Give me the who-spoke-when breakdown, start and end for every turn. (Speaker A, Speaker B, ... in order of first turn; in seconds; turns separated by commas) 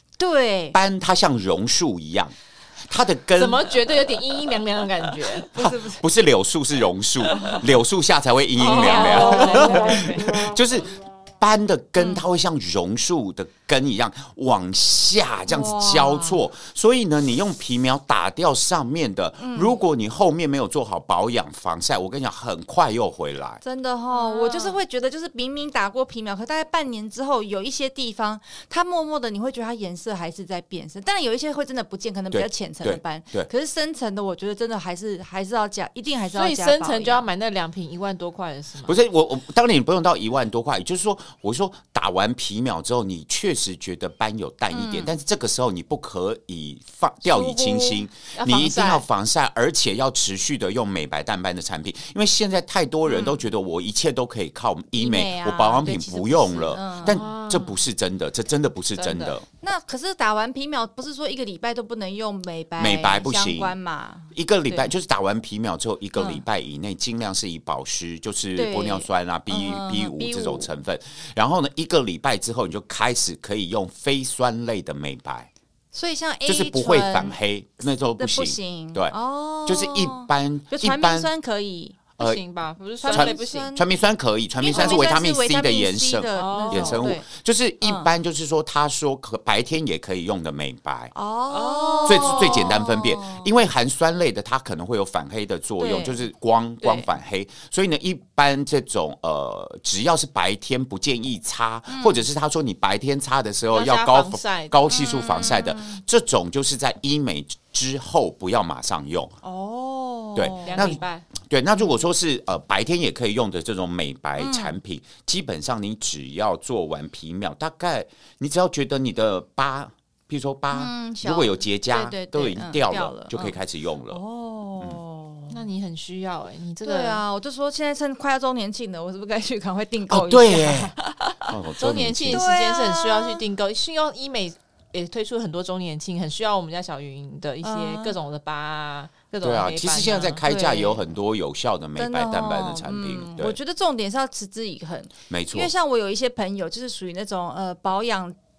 Speaker A: 0.2-0.8, Speaker B: 0.7-2.3, Speaker B: 2.9-3.7, Speaker C: 3.4-5.5, Speaker A: 5.5-6.0, Speaker B: 5.5-23.6, Speaker A: 7.3-7.6, Speaker C: 8.6-10.0, Speaker A: 8.6-10.3, Speaker A: 15.5-16.4, Speaker A: 19.4-19.8, Speaker A: 23.6-37.3, Speaker C: 24.1-24.8, Speaker B: 32.3-33.5, Speaker C: 36.3-39.0, Speaker B: 38.8-59.5, Speaker A: 44.7-45.1, Speaker A: 47.2-48.1, Speaker C: 48.3-49.0, Speaker A: 53.1-53.4, Speaker A: 55.0-57.2, Speaker C: 57.0-57.8, Speaker C: 59.0-59.4, Speaker A: 59.6-64.9, Speaker B: 62.8-63.8, Speaker B: 64.3-75.5, Speaker A: 66.2-66.4, Speaker A: 68.5-70.7, Speaker A: 75.9-82.0, Speaker B: 76.5-81.3, Speaker C: 82.2-83.7, Speaker A: 83.0-83.8, Speaker B: 83.1-91.1, Speaker A: 84.6-87.3, Speaker C: 84.7-85.0, Speaker C: 86.3-87.1, Speaker A: 87.8-88.1, Speaker A: 91.1-93.5, Speaker C: 91.5-92.7, Speaker B: 92.0-109.3, Speaker A: 95.8-96.2, Speaker A: 101.9-102.2, Speaker C: 103.7-104.8, Speaker A: 104.9-106.0, Speaker A: 109.4-111.0, Speaker B: 110.3-124.2, Speaker C: 110.7-111.3, Speaker A: 114.4-114.8, Speaker A: 120.7-123.6, Speaker A: 124.1-125.6, Speaker C: 125.5-127.2, Speaker A: 126.8-131.5, Speaker B: 130.1-130.9, Speaker B: 131.4-132.4, Speaker C: 131.8-140.4, Speaker A: 132.3-133.4, Speaker A: 137.6-138.2, Speaker B: 139.4-143.6, Speaker A: 140.4-141.0, Speaker A: 141.9-148.3, Speaker B: 145.3-145.7